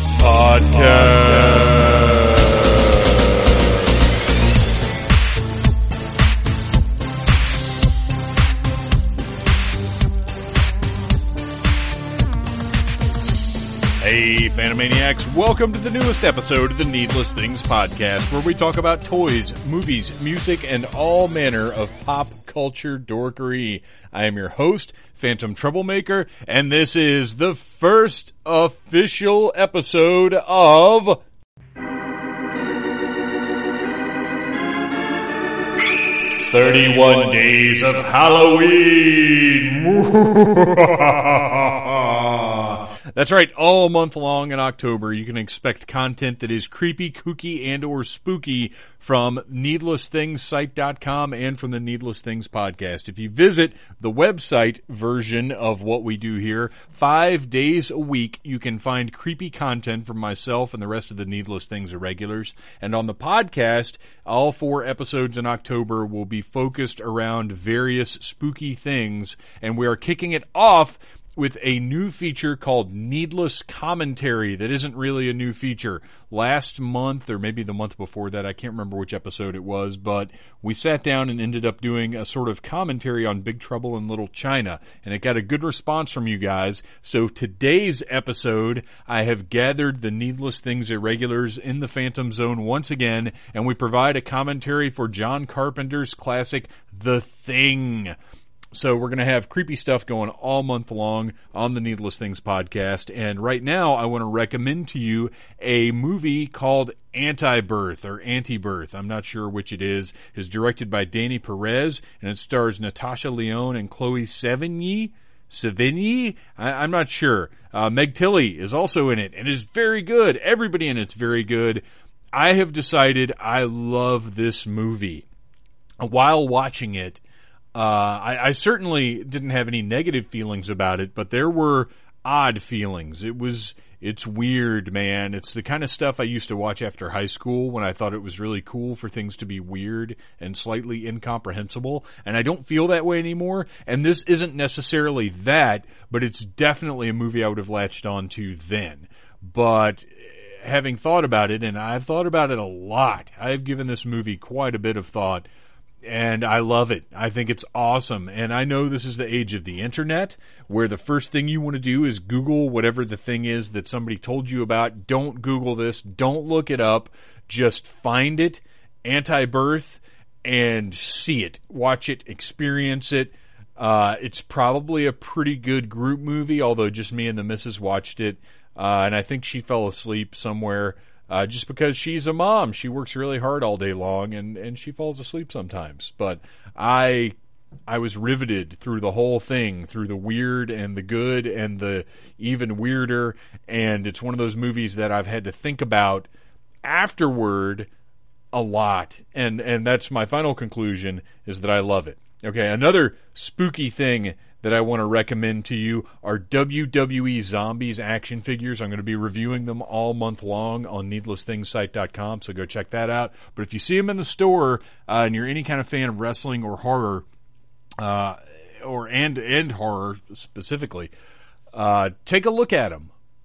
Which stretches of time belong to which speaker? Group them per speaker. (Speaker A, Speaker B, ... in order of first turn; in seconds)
Speaker A: 0.2-3.4, 14.0-31.2, 36.5-98.2, 98.7-125.3, 126.0-127.2, 127.7-155.5, 156.0-187.3, 187.9-196.3, 196.8-197.9, 198.5-217.3, 218.0-221.1, 221.7-223.1